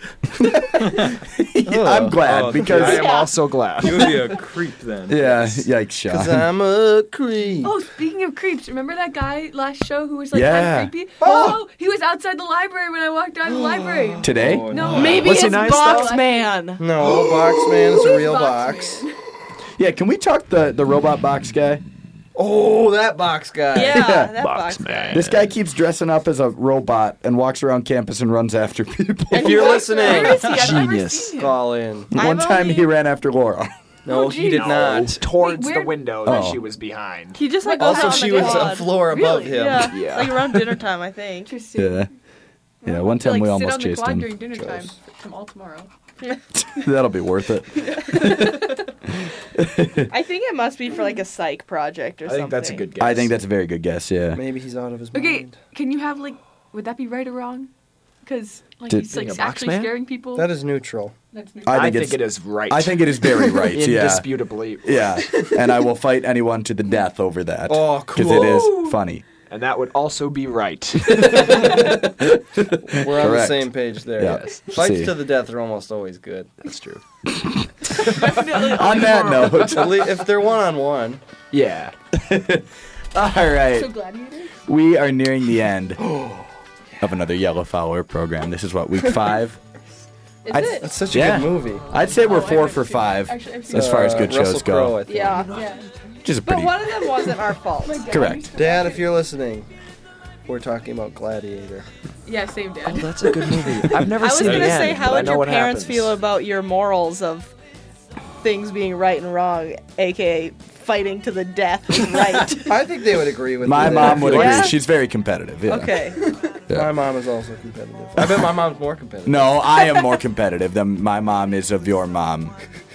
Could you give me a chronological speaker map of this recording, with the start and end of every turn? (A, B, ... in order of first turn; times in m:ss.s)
0:00.4-0:03.1 A
0:01.7-0:02.2 B
0:02.2-0:05.6 C
0:02.6-0:04.2 D
0:02.8-0:03.3 E
0:05.1-0:06.5 A
0:06.1-0:07.8 B
0:07.6-0:16.6 F
0:10.3-0:11.3 A
0:11.2-0:11.5 B
0:13.4-0:15.4 B
0:14.2-0:15.0 A
0:14.7-0:15.2 C
0:14.8-0:16.1 D
0:15.0-0:16.8 E
0:16.8-0:19.0 B
0:17.1-0:19.2 F
0:19.8-0:21.8 A
0:22.3-0:24.2 B
0:23.7-0:25.3 E
0:23.7-0:24.3 A
0:24.4-0:25.5 D
0:25.1-0:29.9 A
0:29.3-0:32.1 B
0:29.4-0:31.6 F
0:29.4-0:30.4 E
0:30.3-0:31.4 D
0:32.1-0:33.7 A
0:32.1-0:32.9 E
0:34.0-0:35.3 B
0:34.1-0:36.5 F
0:34.4-0:37.5 D
0:36.2-0:36.7 A
0:37.3-0:41.5 E
0:37.6-0:39.8 F
0:37.8-0:39.9 B
0:39.9-0:40.5 D
0:41.5-0:42.1 F
0:41.8-0:42.1 A
0:42.8-0:45.9 F
0:42.8-0:44.3 A
0:46.6-0:48.7 A
0:48.1-0:48.8 F
0:49.4-0:50.1 A
0:50.1-0:52.9 E
0:52.2-0:53.3 D
0:53.0-0:54.4 A
0:54.3-0:55.6 B
0:55.1-0:57.7 F
0:58.2-1:00.5 F
0:59.0-1:00.0 D
1:00.3-1:01.1 B
1:01.3-1:01.9 F
1:01.6-1:09.2 A
1:01.7-1:05.4 D
1:07.7-1:08.8 B
1:08.3-1:09.0 F
1:09.5-1:11.7 D
1:11.1-1:15.2 A
1:12.8-1:16.8 B
1:16.7-1:17.0 D
1:17.3-1:17.7 A
1:18.0-1:19.8 F
1:18.5-1:20.1 A
1:19.5-1:21.2 B
1:21.5-1:21.9 D
1:22.1-1:24.0 A
1:23.7-1:24.6 F
1:24.6-1:26.0 A
1:26.0-1:26.4 D
1:27.0-1:29.6 A
1:30.4-1:31.0 F
1:30.5-1:30.8 E
1:30.5-1:35.0 A
1:30.8-1:32.0 B
1:32.0-1:34.4 F
1:33.7-1:35.5 B
1:35.0-1:35.5 E
1:35.4-1:35.9 F
1:36.2-1:36.8 A
1:36.4-1:38.1 E
1:37.8-1:39.2 F
1:38.1-1:38.6 A
1:38.5-1:39.7 B
1:40.4-1:41.9 B
1:42.2-1:44.2 F
1:42.8-1:46.2 D
1:43.5-1:44.0 B
1:44.1-1:47.5 E
1:44.4-1:45.3 C
1:48.4-1:52.7 E
1:52.6-1:54.7 B
1:53.6-1:56.1 A
1:54.1-1:54.8 E
1:55.7-1:56.2 E
1:56.2-1:59.6 B
1:56.7-1:57.0 A
1:58.2-1:58.5 A
1:59.2-2:02.6 A